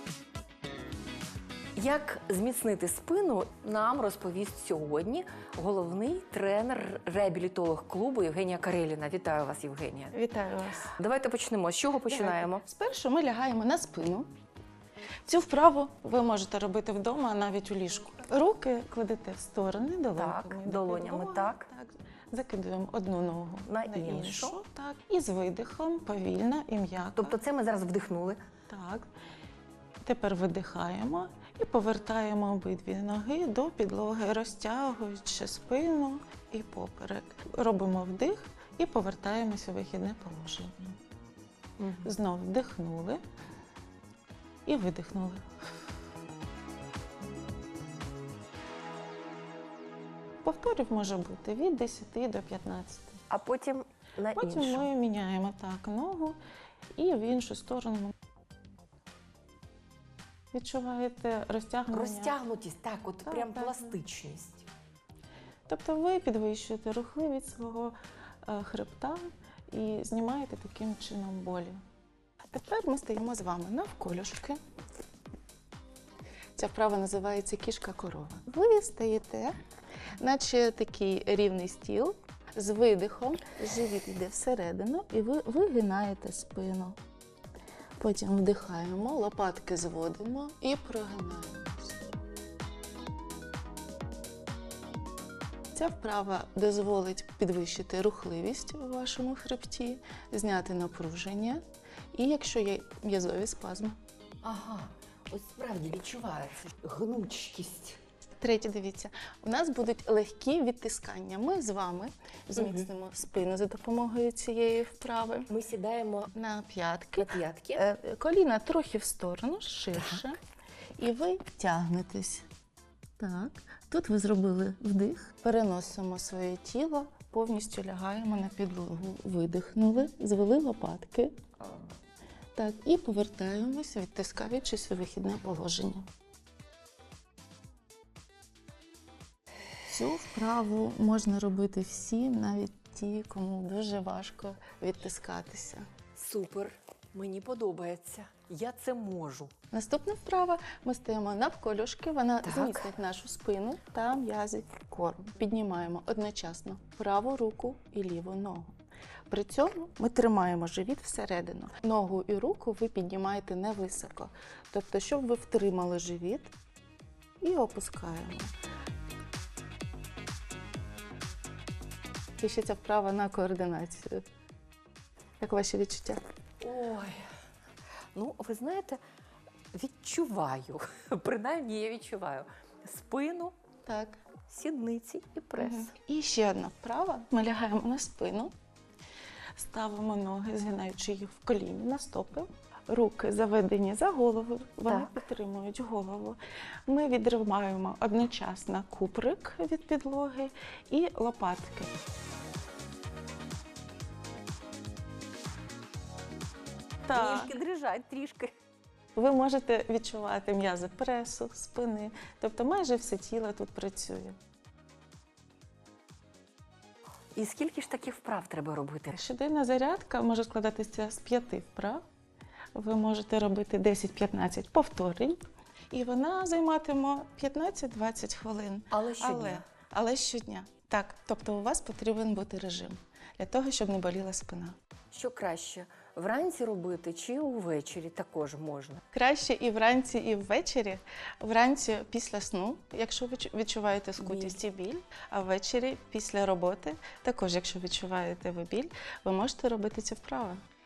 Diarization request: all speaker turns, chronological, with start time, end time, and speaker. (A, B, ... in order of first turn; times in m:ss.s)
0:01.8-0:10.2 A
0:10.1-0:10.9 B
0:10.9-0:12.6 A
0:12.0-0:14.3 B
0:15.3-0:27.4 B
0:20.2-0:21.7 A
0:23.7-0:24.6 A
0:27.2-0:28.4 A
0:28.7-0:29.1 B
0:30.0-0:41.0 B
0:41.8-0:42.1 A
0:42.0-0:43.2 B
0:44.7-0:45.5 B
0:50.4-0:53.2 B
0:53.3-0:54.9 A
0:54.4-0:56.4 B
0:57.0-0:58.1 B
1:00.5-1:02.4 B
1:01.9-1:04.7 A
1:03.2-1:04.0 B
1:05.7-1:11.8 B
1:12.5-1:14.6 B
1:16.6-1:19.5 B
1:20.2-1:27.0 B
1:28.0-1:32.0 B
1:35.8-1:41.6 B
1:42.1-1:44.0 B
1:44.4-1:48.0 A
1:48.4-1:55.5 B
1:52.6-1:52.9 A
1:55.5-1:56.3 A
1:56.3-2:00.4 B
1:57.2-1:57.8 A
1:59.9-2:00.3 A
2:01.0-2:02.5 B
2:03.2-2:11.3 B
2:12.6-2:16.1 B
2:19.9-2:25.9 B
2:26.2-2:29.5 A
2:29.7-2:38.8 B
2:32.4-2:32.9 A
2:39.3-2:46.5 B
2:47.4-2:48.5 B
2:52.4-2:54.2 B
2:55.4-2:56.2 B
2:56.6-2:57.3 A
2:58.2-2:59.0 A
2:59.7-3:03.6 A
3:03.9-3:04.2 B
3:04.5-3:05.9 A
3:05.6-3:08.5 B
3:09.6-3:21.9 B
3:14.9-3:15.3 A
3:27.1-3:27.6 B
3:27.1-3:28.5 A
3:29.2-3:34.4 B
3:37.4-3:39.2 A
3:39.1-3:42.0 B
3:42.8-3:54.8 B
3:48.9-3:49.6 A
3:55.1-3:59.0 A
3:59.1-4:10.6 B
4:04.2-4:04.6 A